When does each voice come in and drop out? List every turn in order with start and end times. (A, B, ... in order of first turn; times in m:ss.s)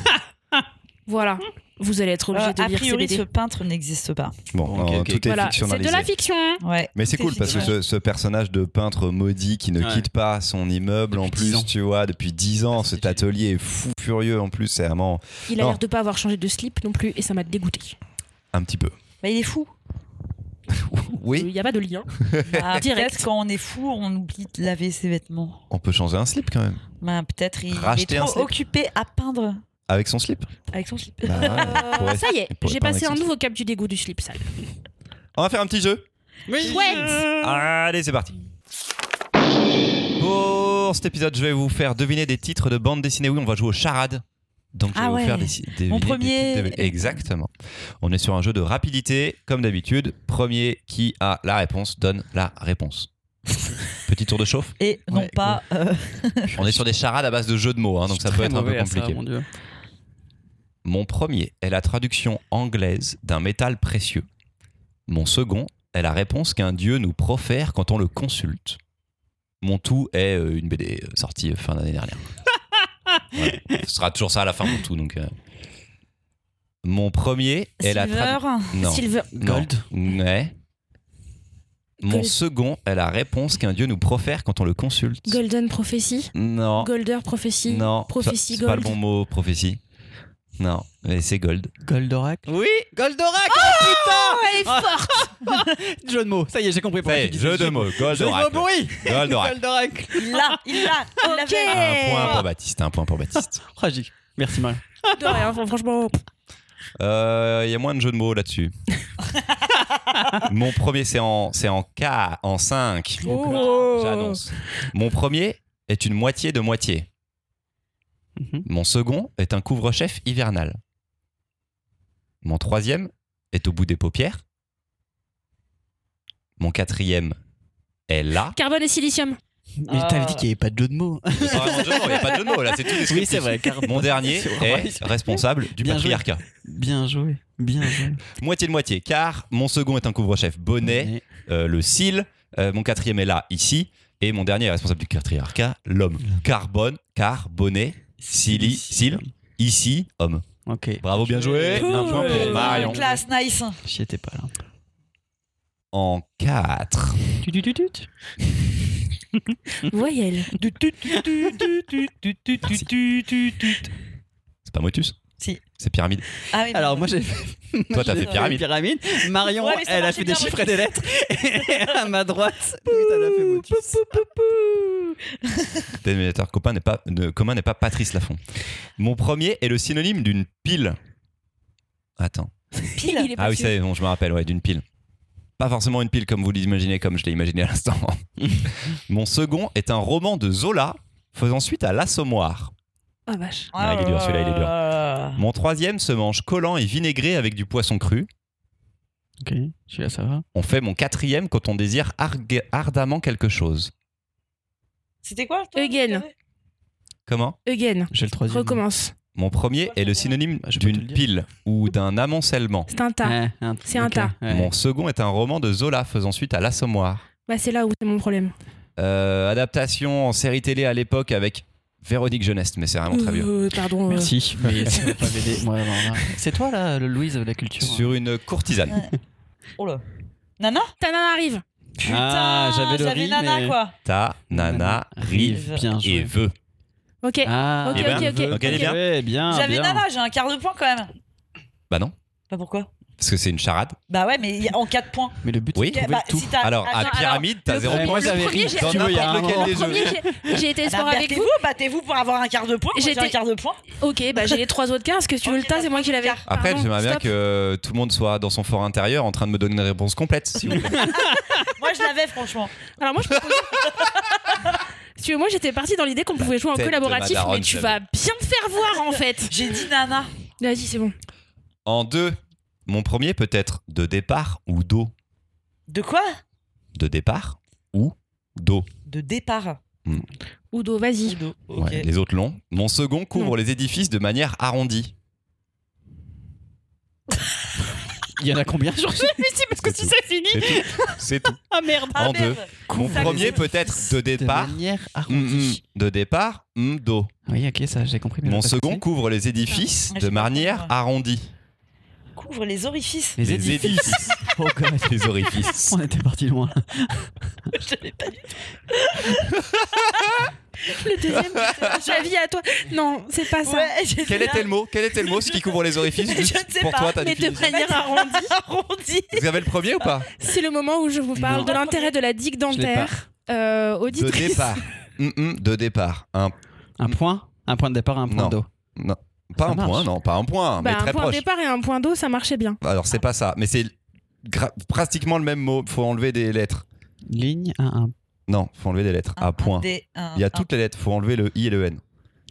0:01.1-0:03.2 A
0:02.3-0:04.4 B
0:04.5-0:06.1 C
0:04.6-0:05.4 D
0:05.2-0:06.6 A
0:06.6-0:07.8 B
0:06.9-0:15.8 C
0:07.4-0:07.7 D
0:09.8-0:10.1 D
0:11.1-0:11.7 D
0:12.7-0:13.3 D
0:15.5-0:18.0 A
0:18.5-0:19.0 C
0:19.2-0:19.7 B
0:20.8-0:21.5 C
0:21.2-0:23.3 A
0:22.2-0:22.7 C
0:22.5-0:25.6 B
0:25.7-0:26.8 C
0:27.0-0:29.6 B
0:27.7-0:28.6 C
0:29.9-0:30.5 C
0:30.7-0:32.0 B
0:31.2-0:33.2 C
0:31.4-0:34.4 A
0:35.4-0:36.0 C
0:36.5-0:37.5 D
0:36.6-0:37.2 A
0:37.4-0:38.3 C
0:40.2-0:53.1 C
0:44.9-0:47.0 B
0:54.0-0:54.7 C
0:54.8-0:56.5 B
0:55.1-0:55.6 D
0:56.4-0:56.8 D
0:56.6-0:59.2 C
0:58.1-0:59.5 D
1:00.8-1:04.2 C
1:05.1-1:08.8 C
1:09.6-1:12.2 C
1:13.1-1:13.8 D
1:13.4-1:15.3 C
1:16.8-1:20.5 C
1:17.8-1:18.8 B
1:18.8-1:19.3 A
1:19.4-1:19.9 D
1:22.0-1:25.4 C
1:22.1-1:22.4 A
1:25.2-1:29.0 A
1:26.3-1:26.9 C
1:27.7-1:29.8 C
1:30.6-1:31.7 C
1:31.8-1:41.0 D
1:33.5-1:35.3 A
1:37.0-1:39.6 C
1:40.2-1:42.3 B
1:41.2-1:42.4 A
1:41.7-1:43.6 C
1:43.6-1:45.4 D
1:45.1-1:46.2 A
1:47.0-1:48.7 C
1:50.4-1:57.1 C
1:53.2-1:54.4 A
1:53.3-1:53.6 D
1:53.4-1:53.9 B
1:58.4-1:58.6 D
1:58.6-2:00.8 C
2:02.4-2:04.4 C
2:06.6-2:07.4 C
2:08.1-2:08.6 C
2:08.6-2:09.4 A
2:09.8-2:18.2 D
2:09.9-2:10.4 B
2:11.4-2:16.4 C
2:18.3-2:30.4 C
2:20.8-2:21.2 D
2:28.2-2:29.3 D
2:30.6-2:33.2 D
2:31.0-2:33.0 C
2:31.7-2:33.8 B
2:32.3-2:32.9 A
2:33.8-2:34.5 D
2:35.9-2:37.2 C
2:37.4-2:39.9 D
2:39.9-2:40.5 A
2:40.6-2:43.9 B
2:41.1-2:41.7 D
2:44.6-2:45.2 C
2:45.8-2:46.2 C
2:46.5-2:47.1 B
2:46.7-2:54.2 D
2:47.9-2:48.6 C
2:48.0-2:48.5 B
2:49.5-2:51.0 B
2:51.6-2:52.0 B
2:52.9-2:55.9 B
2:56.0-2:58.4 C
2:59.0-3:01.0 C
3:02.2-3:02.5 C
3:03.0-3:03.3 B
3:03.0-3:03.8 A
3:03.4-3:04.8 C
3:05.6-3:12.7 C
3:13.3-3:13.7 A
3:13.7-3:15.4 B
3:13.7-3:14.7 C
3:15.4-3:18.3 C
3:19.4-3:20.4 D
3:20.6-3:23.9 C
3:25.2-3:26.3 B
3:25.8-3:26.2 A
3:27.3-3:27.6 C
3:27.6-3:29.1 A
3:28.1-3:28.8 D
3:29.4-3:32.9 C
3:29.9-3:30.4 B
3:30.6-3:31.2 D
3:32.9-3:34.4 A
3:33.2-3:34.7 D
3:34.5-3:37.2 C
3:37.5-3:38.5 A
3:39.0-3:43.5 C
3:43.1-3:45.1 A
3:44.1-3:48.2 D
3:47.8-3:49.1 C
3:49.8-3:50.0 B
3:50.6-3:50.9 B
3:51.0-3:51.6 A
3:52.0-3:53.9 B
3:52.0-3:53.8 D
3:54.0-3:56.6 C
3:54.5-3:56.3 D
3:55.5-3:55.8 B
3:57.2-3:58.9 A
3:57.4-4:00.0 D
3:57.9-3:59.0 C
3:59.5-4:01.1 B
4:02.5-4:02.9 B
4:03.2-4:04.0 C
4:04.1-4:05.4 B
4:05.4-4:06.6 D
4:05.7-4:06.1 C
4:05.9-4:07.5 B
4:06.6-4:10.1 C
4:07.0-4:11.5 A
4:07.8-4:10.6 D
4:10.9-4:13.8 B
4:12.9-4:13.4 A
4:13.9-4:17.3 A
4:15.4-4:16.4 B
4:16.5-4:21.2 C
4:20.7-4:21.7 D
4:21.6-4:22.7 B
4:23.0-4:23.9 A
4:23.8-4:24.7 B
4:25.2-4:29.8 A
4:26.4-4:28.0 C
4:29.5-4:30.3 B
4:30.6-4:31.1 A
4:31.9-4:35.1 C
4:35.9-4:36.4 B
4:36.9-4:38.9 C
4:39.1-4:39.8 B
4:40.7-4:41.4 A
4:41.2-4:42.1 B
4:41.8-4:45.1 C
4:48.3-4:55.8 D
4:49.8-4:51.6 C
4:52.1-4:53.6 B
4:52.1-4:57.3 C
4:57.5-4:59.0 D
4:58.4-5:01.5 C
5:00.1-5:00.9 B
5:02.4-5:03.4 B
5:03.4-5:07.2 D
5:03.4-5:04.4 C
5:05.0-5:06.0 C
5:07.7-5:09.6 B
5:09.6-5:10.5 C
5:10.9-5:13.9 A
5:10.9-5:12.3 B
5:11.3-5:12.0 C
5:13.6-5:20.2 B
5:14.2-5:18.0 C
5:17.2-5:18.5 A
5:19.3-5:20.3 C
5:20.4-5:24.8 A
5:21.4-5:21.7 D
5:21.5-5:22.2 B
5:22.7-5:23.1 D
5:24.1-5:26.5 C
5:27.0-5:28.7 D
5:28.3-5:31.4 C
5:29.6-5:30.1 D
5:30.8-5:32.8 A
5:32.8-5:33.9 C
5:34.4-5:36.8 C
5:37.3-5:38.1 D
5:38.5-5:42.0 C
5:39.4-5:40.6 B